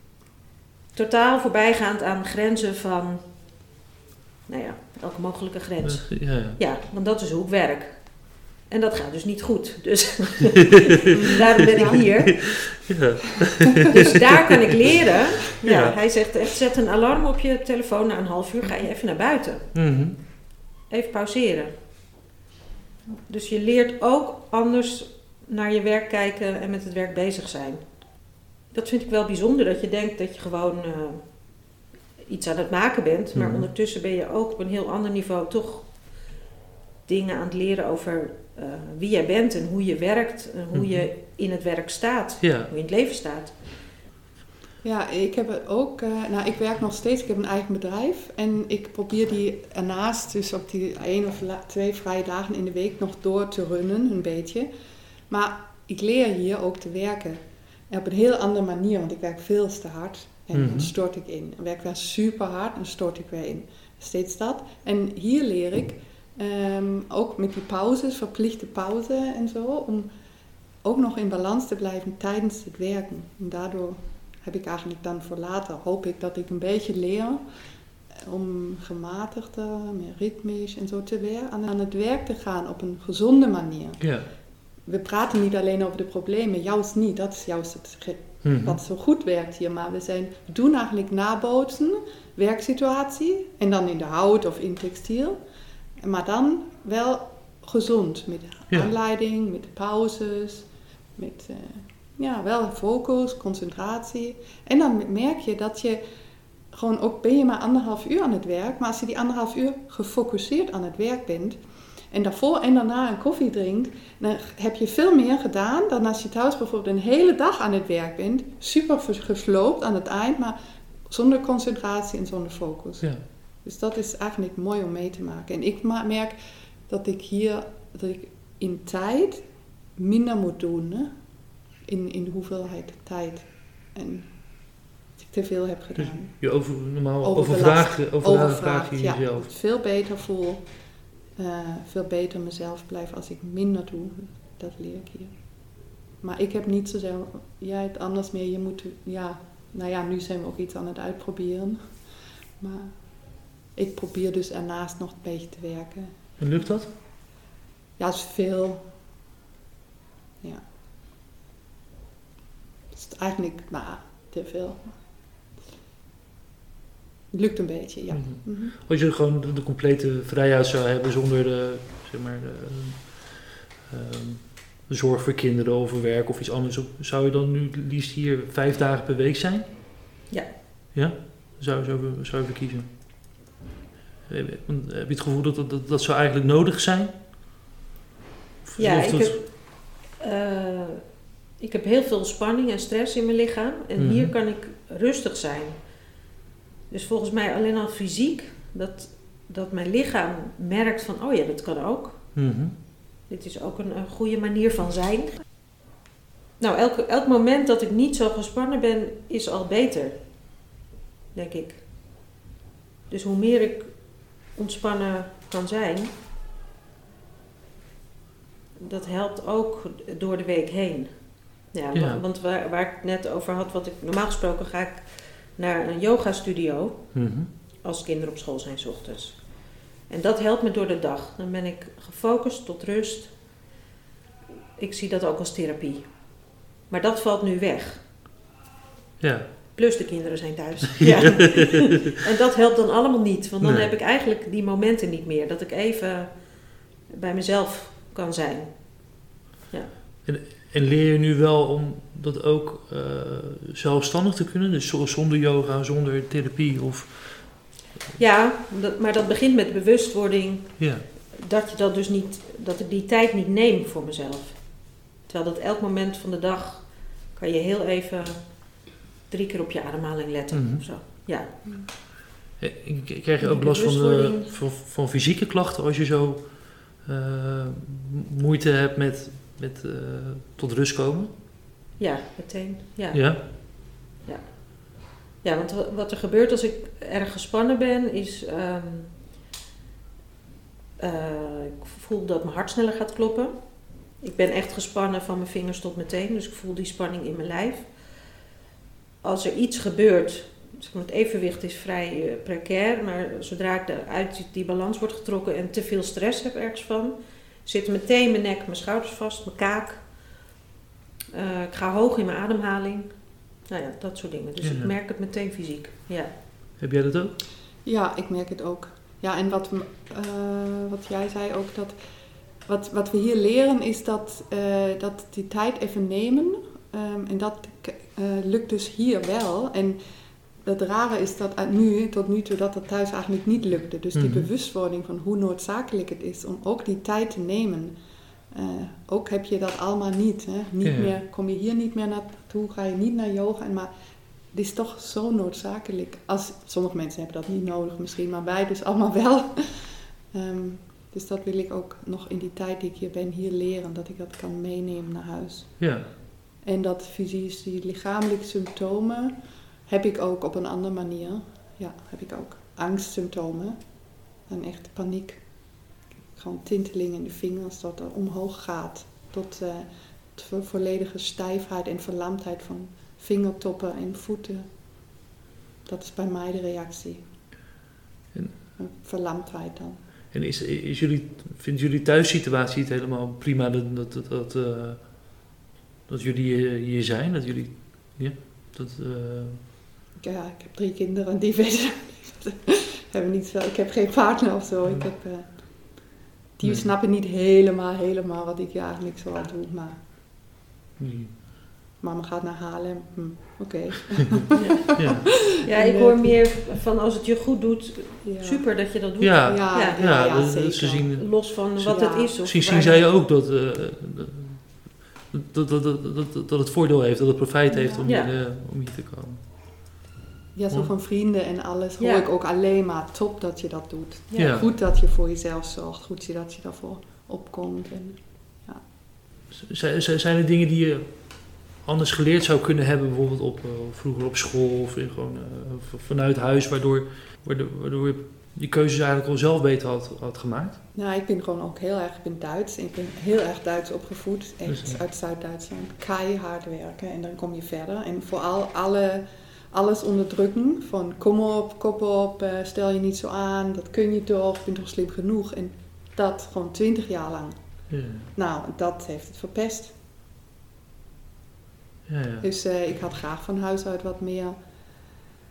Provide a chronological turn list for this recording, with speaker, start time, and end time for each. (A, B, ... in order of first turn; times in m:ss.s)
0:00.9-0:03.6 A
0:04.5-0:12.8 A
0:05.8-0:06.6 B
0:11.8-0:12.0 C
0:11.9-0:14.0 B
0:13.9-0:20.1 A
0:15.6-0:16.0 B
0:19.7-0:20.2 B
0:20.9-0:21.8 A
0:23.3-0:36.3 A
0:33.3-0:33.7 B
0:37.0-0:43.8 A
0:40.7-0:41.1 B
0:42.4-0:42.7 B
0:44.8-0:54.7 C
0:55.3-1:10.1 C
1:00.5-1:00.9 B
1:10.8-1:17.4 C
1:18.1-1:35.4 C
1:24.0-1:24.3 B
1:28.4-1:28.8 B
1:36.0-1:46.0 C
1:46.7-2:36.9 C
2:16.0-2:19.5 B
2:36.4-2:36.9 B
2:38.0-2:38.9 C
2:42.9-2:45.0 C
2:47.3-2:48.8 C
2:48.1-2:59.7 B
3:00.9-3:03.4 B
3:04.3-3:07.2 B
3:08.6-3:09.4 B
3:08.8-3:16.1 A
3:14.0-3:14.3 B
3:16.9-3:22.7 A
3:22.4-3:22.8 B
3:23.2-3:25.4 A
3:26.6-3:30.4 A
3:31.3-3:32.2 A
3:33.1-3:36.1 A
3:38.8-3:53.5 A
3:41.9-3:42.2 B
3:47.1-3:47.5 B
3:54.8-3:58.1 A
3:59.2-3:59.5 B
3:59.7-4:09.9 A
4:01.0-4:01.4 B
4:03.6-4:03.9 B
4:10.2-4:17.8 B
4:18.2-4:31.8 A
4:20.8-4:21.0 B
4:30.5-4:31.2 B
4:32.6-4:41.3 B
4:33.4-4:34.6 A
4:42.0-4:49.2 A
4:43.1-4:43.4 B
4:51.0-4:58.3 A
4:59.2-5:10.4 A
5:11.3-5:16.4 A
5:14.6-5:14.9 B
5:16.8-5:17.4 B
5:17.8-5:22.0 C
5:22.6-5:30.0 C
5:30.5-5:38.0 C
5:34.1-5:34.5 B
5:38.5-5:56.0 C
5:40.8-5:41.2 B
5:55.8-5:56.1 B
5:56.6-6:15.0 C
6:15.8-6:17.3 C
6:18.8-6:20.0 C
6:20.3-6:25.5 B
6:26.1-6:29.6 B
6:30.2-6:40.0 C
6:36.6-6:36.9 B
6:41.0-6:41.4 B
6:42.0-6:46.4 C
6:44.5-6:44.9 A
6:45.0-6:45.2 B
6:45.6-6:50.5 A
6:48.2-6:48.9 C
6:49.2-6:51.9 B
6:49.4-6:53.0 C
6:51.1-6:53.1 A
6:52.4-6:59.4 B
6:57.7-6:58.1 C
6:58.0-6:58.3 A
7:00.5-7:08.8 C
7:02.0-7:02.3 A
7:04.3-7:04.7 A
7:04.4-7:04.7 B
7:09.5-7:20.8 B
7:20.9-7:40.0 C
7:24.7-7:25.0 B
7:37.9-7:38.3 B
7:42.1-7:42.4 B
7:42.4-7:44.8 C